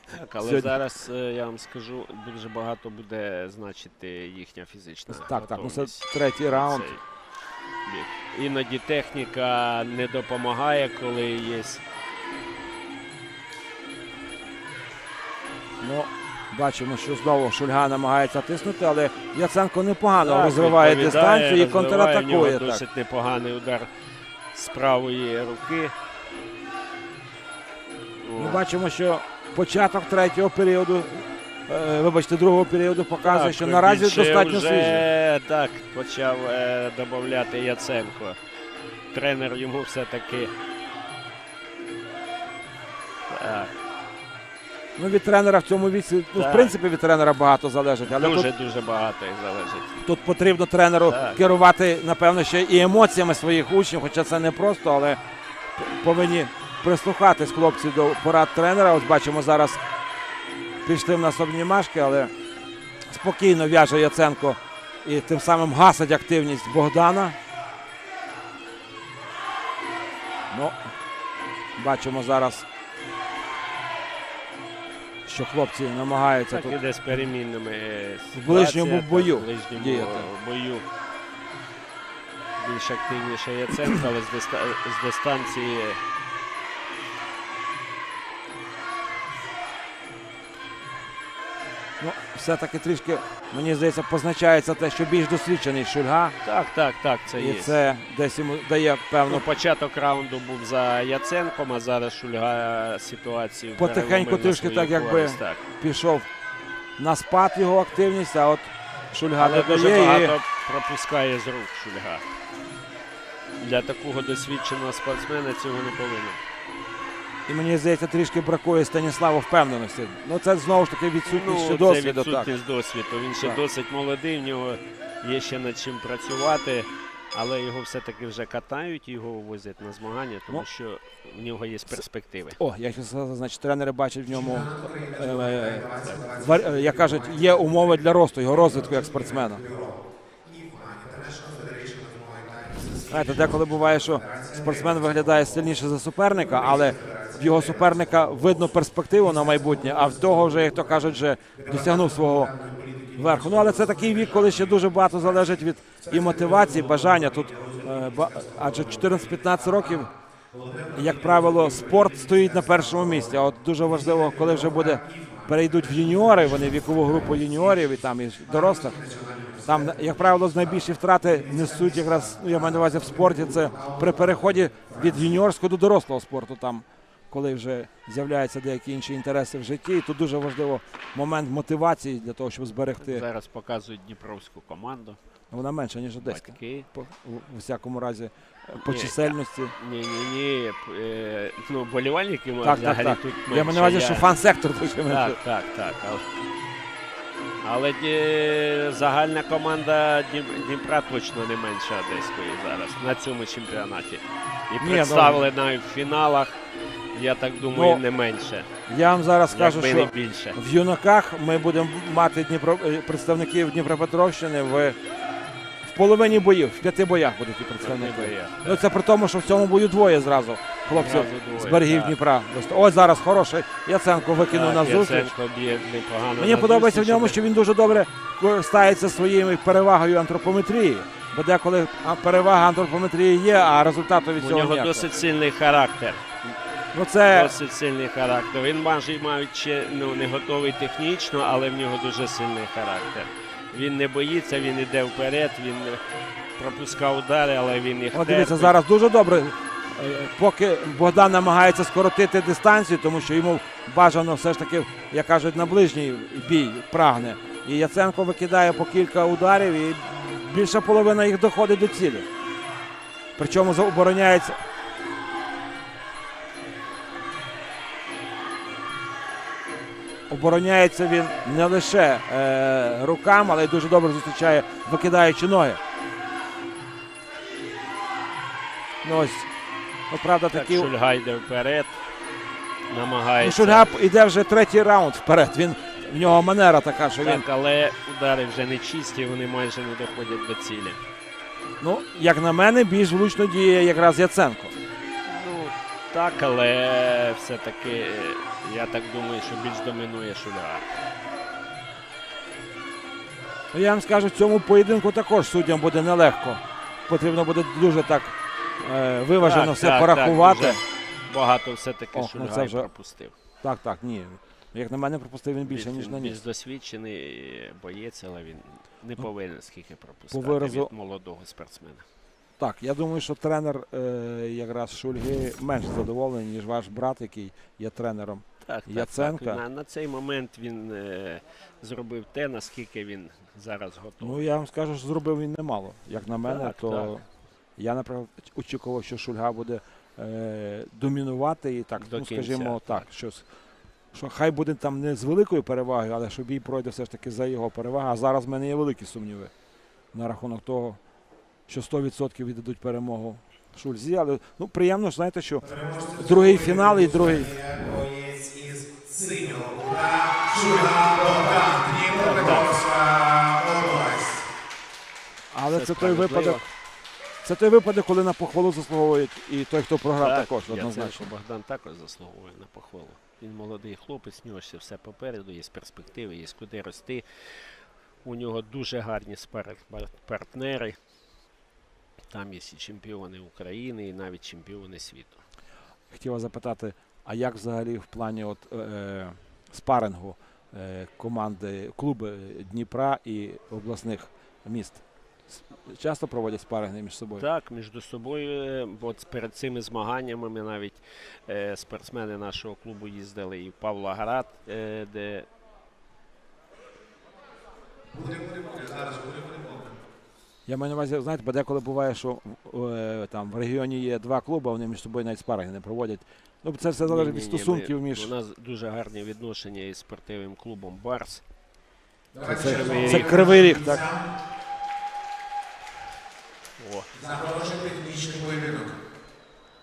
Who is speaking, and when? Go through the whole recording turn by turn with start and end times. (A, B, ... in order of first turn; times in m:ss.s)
0:00.1-0:07.0 A
0:00.4-0:00.7 B
0:05.1-0:06.9 B
0:07.8-0:11.8 A
0:15.8-0:22.8 B
0:20.2-0:23.9 A
0:24.5-0:25.9 A
0:28.2-0:28.6 A
0:28.4-0:35.1 B
0:33.2-0:38.4 A
0:39.1-0:40.5 A
0:43.3-0:43.7 A
0:45.0-0:48.5 B
0:46.3-0:46.8 A
0:48.1-0:50.0 A
0:50.0-0:55.2 B
0:51.1-0:51.4 A
0:55.8-0:59.8 B
1:00.8-1:02.3 B
1:03.1-1:07.4 B
1:10.5-1:10.8 B
1:11.8-1:12.6 B
1:15.2-1:16.8 B
1:16.5-1:20.8 A
1:18.3-1:20.3 B
1:22.6-1:26.0 A
1:32.0-1:36.4 B
1:36.4-1:37.8 A
1:37.3-1:39.4 B
1:39.3-1:45.6 A
1:43.8-1:46.3 B
1:47.0-1:50.4 B
1:49.4-1:52.2 A
1:53.6-1:56.4 A
1:57.5-2:02.5 B
2:01.2-2:12.6 A
2:12.6-2:19.6 B
2:14.3-2:25.8 C
2:23.1-2:32.5 B
2:26.3-2:55.3 C
2:33.2-2:40.1 B
2:40.9-2:49.0 B
2:49.6-3:03.2 B
3:03.0-3:05.2 A
3:05.5-3:09.8 B
3:06.2-3:06.9 A
3:08.8-3:14.3 A
3:12.6-3:15.4 B
3:15.1-3:16.2 A
3:17.6-3:26.6 A
3:24.8-3:25.4 B
3:27.1-3:28.7 A
3:27.7-3:28.0 B
3:28.9-3:35.0 B
3:29.5-3:30.6 A
3:35.8-3:45.3 B
3:37.8-3:38.8 A
3:40.8-3:42.2 A
3:44.5-3:47.4 A
3:46.4-3:55.1 B
3:54.4-3:56.3 A
3:56.9-3:57.6 B
3:57.3-4:06.0 A
4:06.6-4:08.8 A
4:08.1-4:22.3 B
4:23.4-4:24.6 B
4:30.3-4:35.8 B
4:39.0-4:39.5 B
4:40.1-4:40.9 B
4:40.5-4:42.0 A
4:42.9-4:43.9 A
4:43.4-4:47.4 B
4:47.2-4:51.0 A
4:51.8-4:54.8 B
4:55.2-5:00.9 A
5:03.7-5:10.8 B
5:09.4-5:13.3 A
5:12.1-5:12.9 B
5:13.6-5:16.4 B
5:15.6-5:22.0 A
5:20.3-5:20.9 B
5:22.6-5:29.6 B
5:28.6-5:34.5 A
5:34.2-5:37.2 B
5:36.4-5:37.2 A
5:37.8-5:43.4 B
5:42.0-5:43.1 A
5:44.1-5:49.5 B
5:50.1-5:51.0 B
5:51.7-5:57.6 B
5:55.6-6:04.5 C
6:02.2-6:02.8 A
6:05.5-6:06.6 B
6:05.7-6:06.6 A
6:07.4-6:11.3 B
6:10.2-6:21.0 A
6:22.3-6:25.4 A
6:26.1-6:37.5 B
6:37.4-6:45.5 A
6:48.1-6:50.0 C
6:50.6-6:58.3 B
6:57.0-7:01.4 A
7:02.3-7:04.4 C
7:02.4-7:04.0 B
7:02.5-7:03.5 A
7:06.8-7:07.1 A
7:07.1-7:09.0 C